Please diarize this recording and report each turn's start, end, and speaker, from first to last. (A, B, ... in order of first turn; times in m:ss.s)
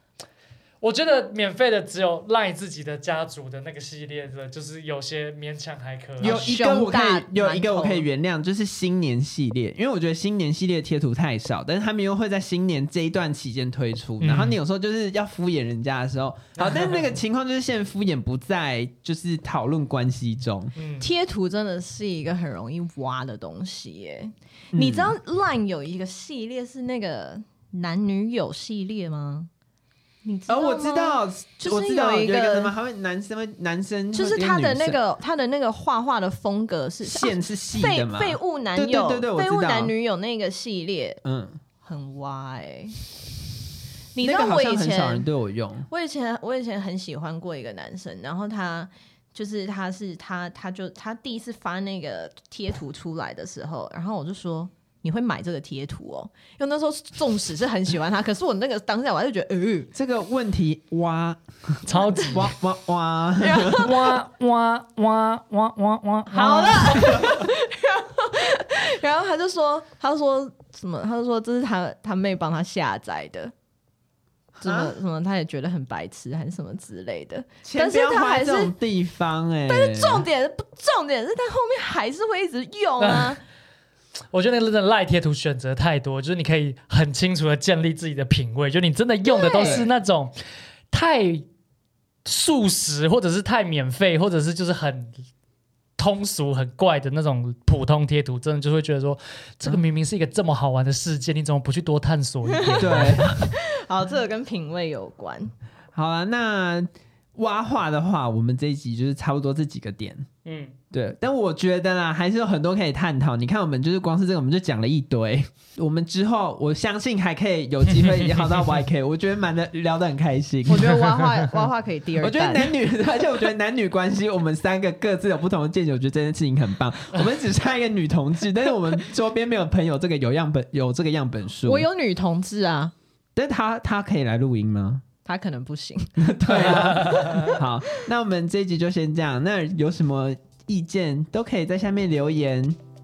0:00.8-0:06.4 A
0:06.2-0:08.0 B
0:06.2-0:20.7 C
0:14.2-0:14.6 A
0:16.6-0:17.1 A
0:20.7-0:21.1 A
0:21.0-0:29.5 B
0:24.7-0:25.2 C
0:30.2-0:32.7 B
0:30.5-0:35.0 C
0:34.1-0:41.2 B
0:37.0-0:39.9 C
0:41.2-0:41.6 C
0:41.8-0:42.9 B
0:44.1-0:45.3 B
0:44.2-0:45.9 C
0:45.9-0:59.9 B
0:59.9-1:03.9 C
1:01.9-1:02.5 A
1:02.1-1:02.4 B
1:03.4-1:04.2 B
1:03.8-1:07.2 A
1:06.3-1:13.5 B
1:14.6-1:18.7 B
1:14.6-1:14.9 C
1:17.6-1:20.2 C
1:19.7-1:23.4 B
1:23.0-1:23.4 A
1:24.3-1:30.3 A
1:29.2-1:29.9 B
1:30.9-1:31.5 A
1:32.2-1:35.1 A
1:36.0-1:43.4 A
1:42.5-1:45.5 B
1:42.8-1:43.4 C
1:45.9-1:50.3 C
1:50.4-1:50.7 A
1:50.9-2:01.2 C
1:57.9-1:58.8 A
2:00.7-2:02.7 B
2:02.2-2:11.8 C
2:11.6-2:12.9 B
2:13.4-2:15.0 C
2:15.2-2:17.6 B
2:16.2-2:22.8 C
2:16.8-2:17.5 A